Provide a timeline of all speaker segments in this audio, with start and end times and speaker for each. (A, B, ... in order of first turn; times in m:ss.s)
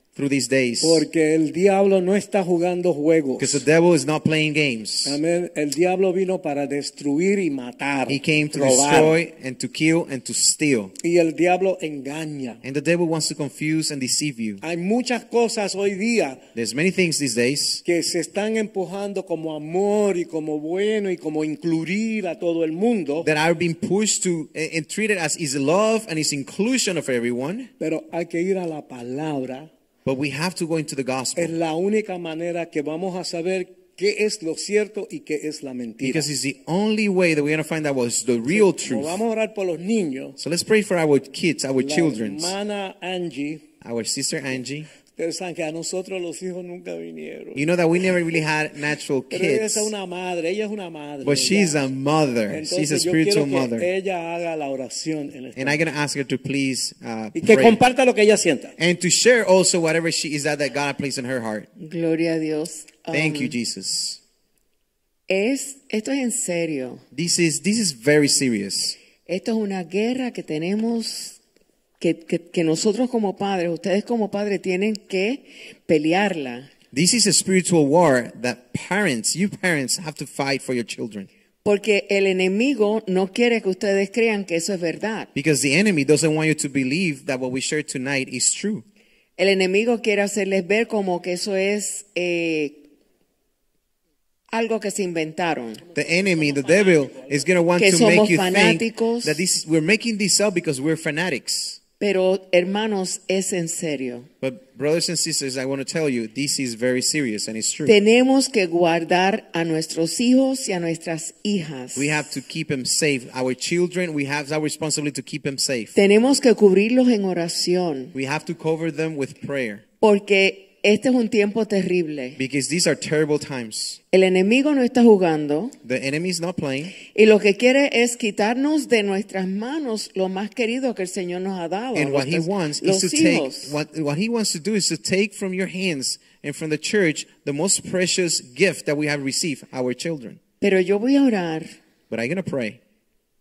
0:00.1-0:01.0 A
0:00.8-0:03.6 B
0:03.4-0:05.2 A
0:05.0-0:09.2 B
0:08.1-0:10.9 A
0:11.0-0:12.6 B
0:12.6-0:14.6 A
0:14.6-0:16.4 B
0:16.5-0:17.8 A
0:17.8-0:23.3 B
0:23.2-0:27.7 A
0:27.8-0:29.7 B
0:30.0-0:31.5 A
0:31.4-0:36.3 B
0:36.0-0:39.2 A
0:38.5-0:40.4 B
0:40.4-0:42.5 A
0:41.8-0:43.6 B
0:43.8-0:44.9 A
0:45.2-0:47.6 B
0:47.5-0:49.9 A
0:49.3-0:51.9 B
0:51.2-0:53.9 A
0:52.5-0:55.8 B
0:55.6-0:57.8 A
0:57.3-0:58.7 B
0:58.8-1:01.7 A
1:01.8-1:03.5 C
1:03.1-1:04.2 A
1:05.3-1:07.0 C
1:07.1-1:09.0 A
1:09.2-1:11.4 C
1:12.0-1:16.7 C
1:16.9-1:21.3 A
1:21.6-1:25.3 C
1:25.3-1:28.8 A
1:29.4-1:32.8 C
1:34.5-1:35.8 C
1:35.9-1:41.8 A
1:36.6-1:37.3 B
1:37.8-1:39.4 C
1:42.0-1:44.3 C
1:44.4-1:48.0 A
1:47.8-1:52.2 C
1:51.9-1:55.9 A
1:55.9-1:58.1 C
1:58.1-1:59.8 A
2:00.0-2:02.4 C
2:02.4-2:04.0 A
2:04.1-2:05.7 C
2:05.8-2:06.9 A
2:07.0-2:13.7 C
2:11.9-2:20.4 A
2:20.6-2:21.7 C
2:22.1-2:22.8 A